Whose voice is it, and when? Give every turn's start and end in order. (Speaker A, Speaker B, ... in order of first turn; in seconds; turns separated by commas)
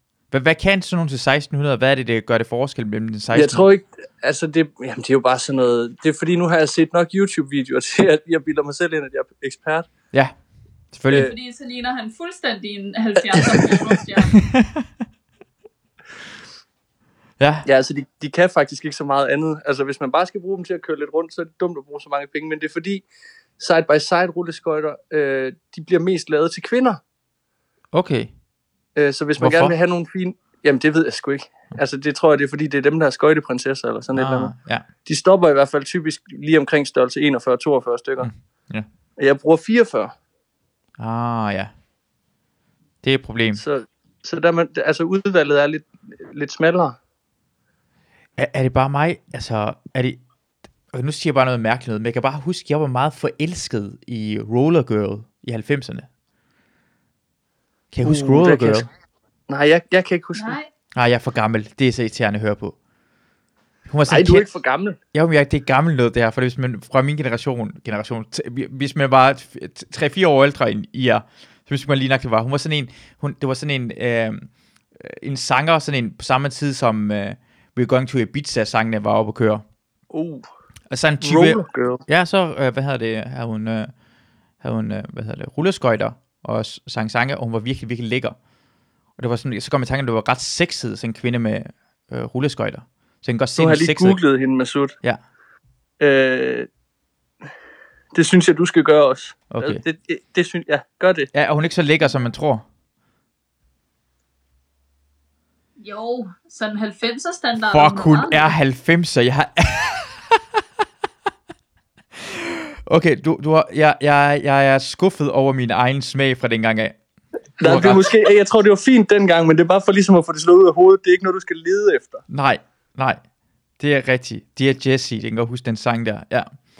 Speaker A: 0.3-3.7, Speaker B: 3.3-9.9, Speaker A: 10.9-11.3, Speaker B: 11.1-11.3, Speaker C: 11.2-14.4, Speaker A: 14.3-14.9, Speaker A: 17.4-17.7, Speaker B: 17.6-23.0, Speaker B: 23.6-27.0, Speaker A: 27.9-28.3, Speaker B: 28.9-34.5, Speaker A: 29.4-29.8, Speaker A: 34.1-34.9, Speaker B: 35.0-38.3, Speaker A: 38.2-38.9, Speaker B: 39.2-40.1, Speaker A: 41.0-41.7, Speaker A: 43.0-43.6, Speaker B: 43.5-47.0, Speaker A: 48.4-50.2, Speaker A: 50.9-56.1, Speaker A: 57.9-58.9, Speaker B: 58.0-58.9, Speaker B: 59.5-60.6, Speaker C: 60.3-60.7, Speaker A: 60.9-62.8, Speaker A: 63.9-64.4, Speaker B: 64.1-65.0, Speaker A: 65.1-79.6, Speaker B: 80.1-80.5, Speaker A: 80.9-83.9, Speaker B: 81.2-82.0, Speaker A: 84.6-88.3, Speaker A: 89.2-94.2, Speaker B: 93.6-95.0, Speaker B: 96.0-96.7, Speaker B: 98.1-101.3, Speaker A: 99.5-99.8, Speaker A: 101.3-102.6, Speaker C: 105.8-108.5, Speaker A: 107.7-110.6, Speaker A: 112.2-117.0, Speaker B: 117.6-122.2, Speaker A: 117.6-118.1, Speaker A: 122.3-123.2, Speaker A: 123.8-126.5